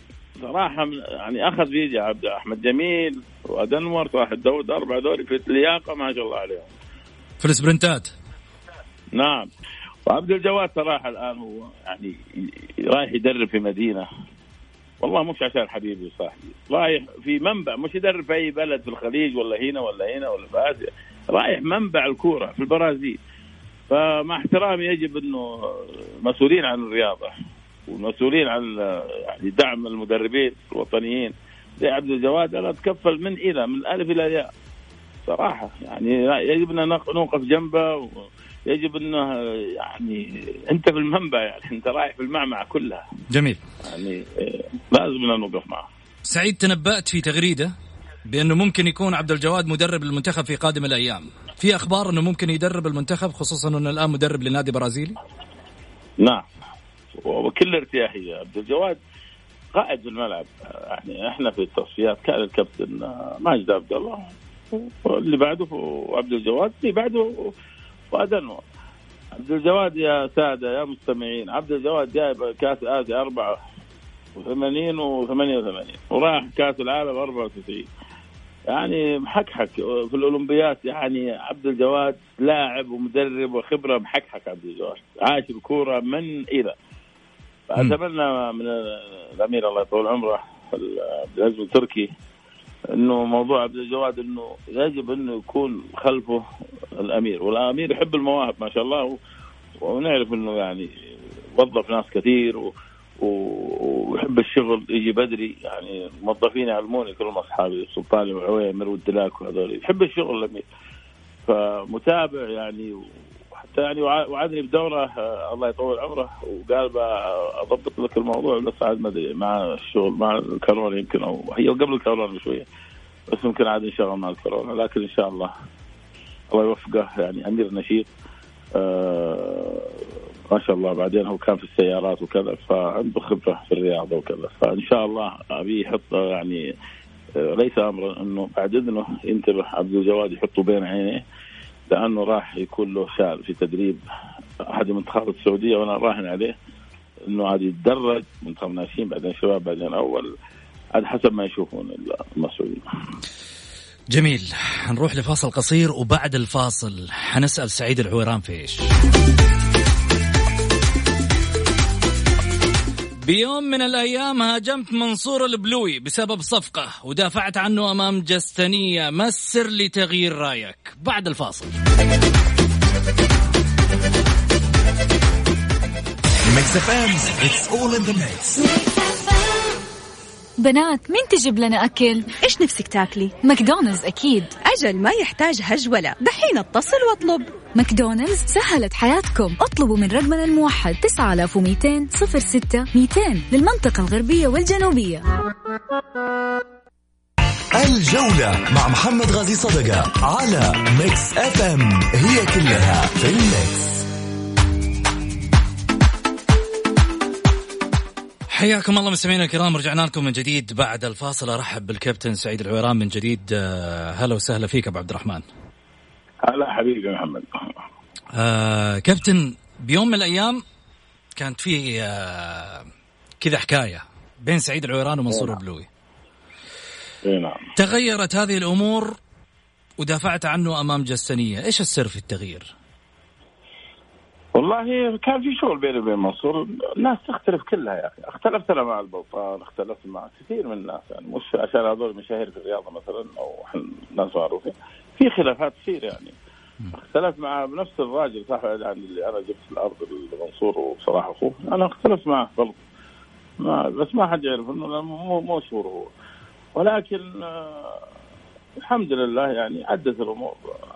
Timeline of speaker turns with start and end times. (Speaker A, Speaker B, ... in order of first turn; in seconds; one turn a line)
Speaker A: 0.4-6.7
Speaker B: 7.4-8.1
Speaker A: 9.2-9.5
Speaker A: 10.1-14.1
Speaker A: 15.0-23.2
Speaker A: 23.9-27.3
Speaker A: 27.9-34.5
Speaker A: 35.2-43.1
Speaker B: 43.3-43.6
Speaker A: 43.9-45.9
Speaker B: 46.3-47.7
Speaker B: 48.3-55.1
Speaker A: 57.1-59.0
Speaker A: 59.8-67.5
Speaker A: 68.1-68.6
Speaker A: 69.3-73.6
Speaker A: 74.4-77.9
Speaker A: 78.7-86.8
Speaker A: 87.7-92.1
Speaker A: 92.9-96.4
Speaker A: 96.9-99.2
Speaker A: 99.8-100.9
Speaker A: 101.6-110.7
Speaker A: 111.5-122.7
Speaker A: 123.3-125.5
Speaker A: 126.5-128.1
Speaker A: 128.8-129.9
Speaker A: 130.5-136.6
Speaker A: 137.4-141.2
Speaker A: 141.9-144.0
Speaker A: 144.7-146.6
Speaker A: 147.3-150.3
Speaker A: 150.9-152.8
Speaker B: 154.1-158.9
Speaker B: 163.2-171.8
Speaker C: 176.5-178.6
Speaker D: 180.6-182.3
Speaker E: 182.4-183.4
Speaker D: 183.4-184.5
Speaker E: 184.6-187.5
Speaker D: 187.8-195.3
Speaker C: 197.8-204.0
Speaker B: 208.5-215.4
Speaker A: 216.4-217.7
Speaker B: 218.3-220.6
Speaker B: 221.4-222.9
Speaker B: 223.4-225.9
Speaker A: 225.3-225.6
Speaker A: 227.2-227.7
Speaker B: 227.8-229.2
Speaker B: 230.0-232.7
Speaker A: 234.6-246.3
Speaker A: 246.9-252.8
Speaker A: 253.6-256.1
Speaker A: 256.8-258.0
Speaker A: 258.8-260.7